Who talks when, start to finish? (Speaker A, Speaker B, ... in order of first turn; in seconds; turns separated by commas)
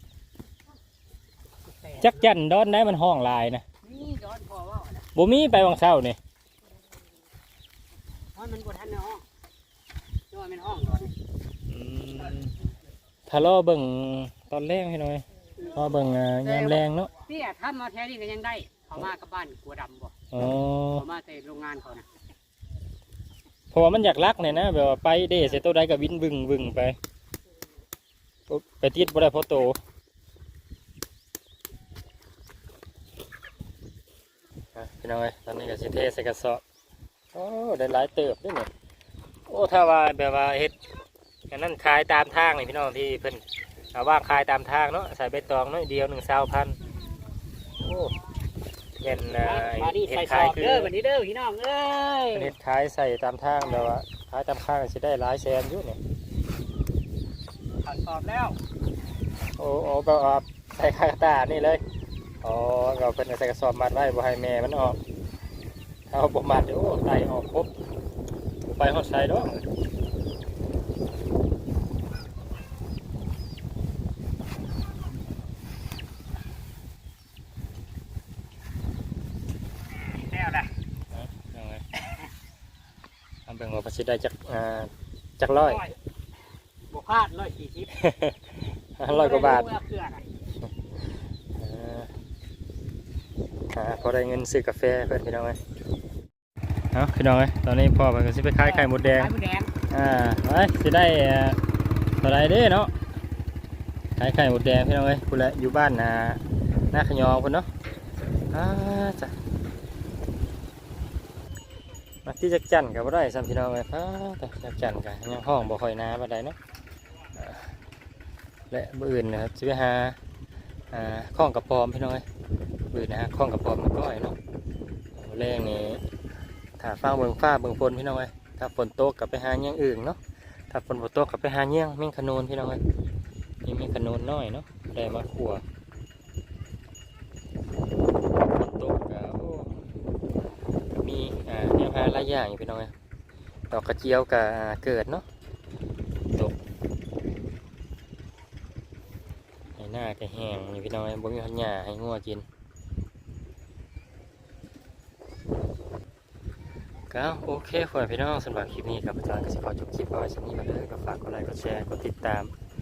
Speaker A: 1.7-2.3, Speaker B: 2.0-3.6, Speaker A: 3.8-5.0, Speaker B: 5.1-6.2, Speaker A: 8.3-9.2, Speaker A: 10.3-11.1, Speaker B: 11.7-12.5, Speaker B: 13.3-17.1, Speaker A: 16.4-20.1, Speaker B: 20.3-21.0, Speaker A: 20.9-22.1, Speaker B: 23.7-26.9, Speaker B: 28.5-29.8, Speaker B: 34.7-36.6, Speaker B: 37.3-38.7, Speaker B: 39.5-40.8, Speaker B: 41.5-46.8, Speaker B: 47.8-48.1, Speaker B: 49.0-50.9, Speaker A: 49.3-52.5, Speaker B: 52.3-56.0, Speaker A: 57.8-58.6, Speaker B: 59.6-61.8, Speaker B: 62.4-65.0, Speaker B: 66.1-67.7, Speaker B: 68.7-69.7, Speaker A: 80.1-80.7, Speaker B: 81.1-81.8, Speaker B: 83.5-85.8, Speaker A: 85.5-86.0, Speaker A: 86.9-87.9, Speaker B: 87.9-88.4, Speaker B: 89.0-89.7, Speaker A: 89.1-90.2, Speaker B: 91.6-92.1, Speaker B: 93.7-95.6, Speaker B: 96.9-99.3, Speaker A: 98.6-99.7, Speaker B: 99.9-101.6, Speaker B: 102.2-102.9, Speaker B: 104.2-107.7, Speaker B: 108.5-109.3, Speaker B: 112.2-116.5, Speaker B: 117.3-117.7, Speaker B: 118.7-120.2, Speaker B: 120.9-122.2, Speaker B: 122.9-124.4, Speaker B: 125.1-126.0, Speaker B: 126.8-130.2, Speaker B: 130.7-132.8, Speaker B: 133.6-135.6, Speaker B: 138.4-139.7, Speaker B: 140.9-142.9, Speaker B: 143.7-145.2, Speaker B: 149.8-152.4, Speaker B: 157.1-162.5